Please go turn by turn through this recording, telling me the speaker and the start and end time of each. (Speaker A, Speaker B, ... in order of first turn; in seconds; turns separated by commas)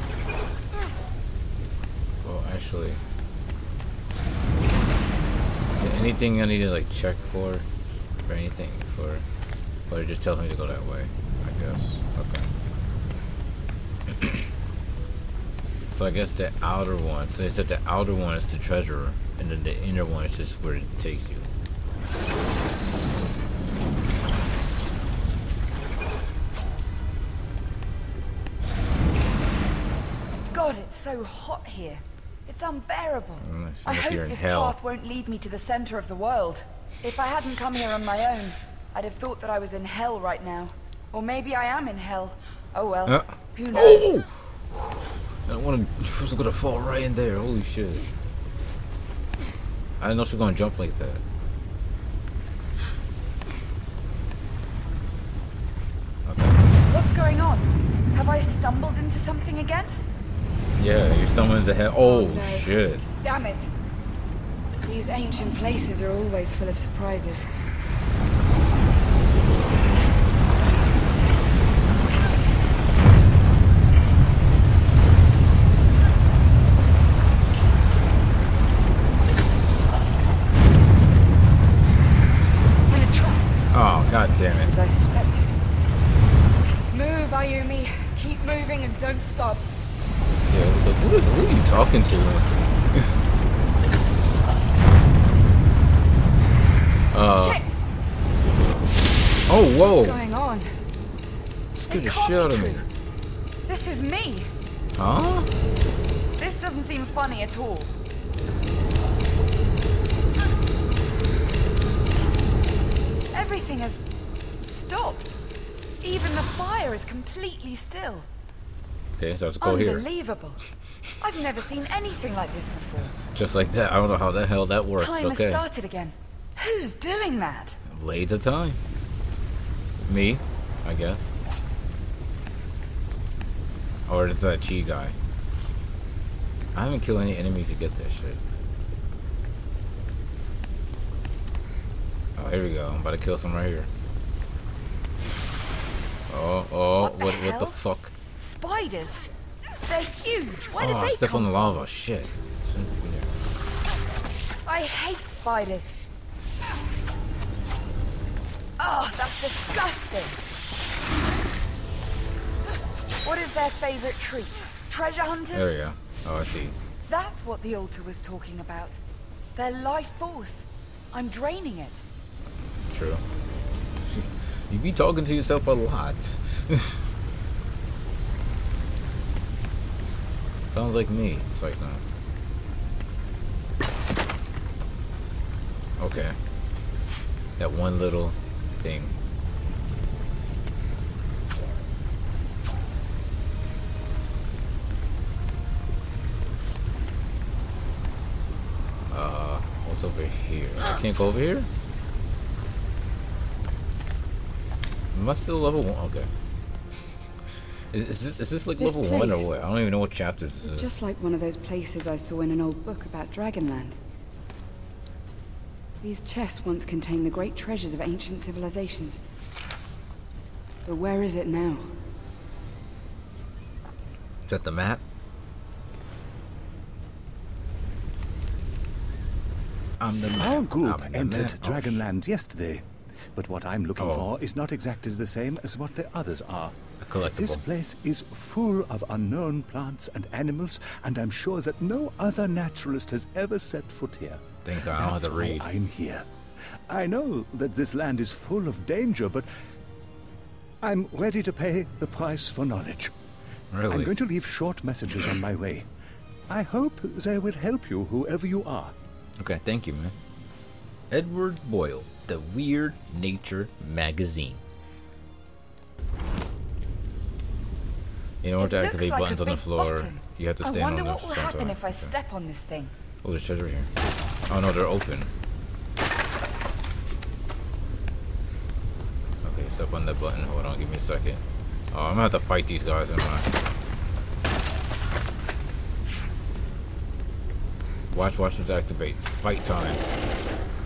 Speaker A: 2.2-3.0, Speaker A: 5.7-7.7, Speaker A: 8.3-9.2, Speaker A: 9.9-12.5, Speaker A: 14.1-14.4, Speaker A: 15.9-21.5, Speaker B: 30.5-44.2, Speaker A: 33.4-34.8, Speaker A: 43.1-48.1, Speaker A: 50.0-51.2, Speaker A: 56.3-56.6, Speaker B: 56.9-59.9, Speaker A: 60.8-63.0, Speaker B: 62.0-63.7, Speaker B: 64.8-67.5, Speaker B: 82.9-83.5, Speaker A: 83.7-84.7, Speaker B: 84.5-85.6, Speaker B: 86.9-89.7, Speaker A: 90.5-93.1, Speaker A: 97.1-97.6, Speaker B: 97.3-97.8, Speaker A: 99.5-100.2, Speaker B: 99.8-100.8, Speaker A: 101.7-102.9, Speaker B: 101.8-102.9, Speaker B: 103.7-104.5, Speaker A: 105.0-105.5, Speaker B: 106.4-107.9, Speaker B: 113.3-114.0, Speaker B: 114.6-115.4, Speaker B: 116.0-118.3, Speaker A: 119.2-120.1, Speaker B: 119.6-120.6, Speaker B: 121.2-123.2, Speaker A: 123.3-125.6, Speaker B: 125.0-127.8, Speaker A: 127.9-128.8, Speaker A: 130.0-131.3, Speaker A: 134.1-135.2, Speaker A: 136.7-138.4, Speaker A: 142.4-143.9, Speaker A: 146.3-148.1, Speaker B: 147.0-147.8, Speaker B: 148.4-149.2, Speaker B: 149.8-151.8, Speaker A: 150.8-153.3, Speaker B: 154.7-155.9, Speaker B: 158.8-160.4, Speaker B: 163.2-165.8, Speaker A: 165.5-166.8, Speaker B: 167.1-169.0, Speaker B: 169.6-172.0, Speaker A: 172.9-173.2, Speaker A: 174.1-177.0, Speaker A: 180.7-182.0, Speaker A: 186.0-186.4, Speaker A: 187.6-189.2, Speaker A: 199.1-201.7, Speaker A: 205.1-206.3, Speaker A: 207.9-210.9, Speaker B: 208.8-209.5, Speaker B: 210.6-214.0, Speaker B: 216.0-219.2, Speaker B: 220.8-221.9, Speaker A: 224.5-225.0, Speaker A: 230.0-232.0, Speaker C: 230.4-246.3, Speaker A: 234.0-234.3, Speaker A: 237.0-237.6, Speaker A: 244.7-245.7, Speaker C: 246.9-249.5, Speaker C: 250.8-253.1, Speaker A: 253.7-254.1, Speaker C: 253.9-255.9, Speaker C: 256.5-258.9, Speaker A: 259.4-260.1, Speaker A: 261.1-264.6, Speaker A: 268.4-272.1, Speaker B: 268.6-272.9, Speaker A: 273.2-273.9, Speaker A: 274.5-275.3, Speaker A: 279.4-283.5, Speaker A: 288.1-290.0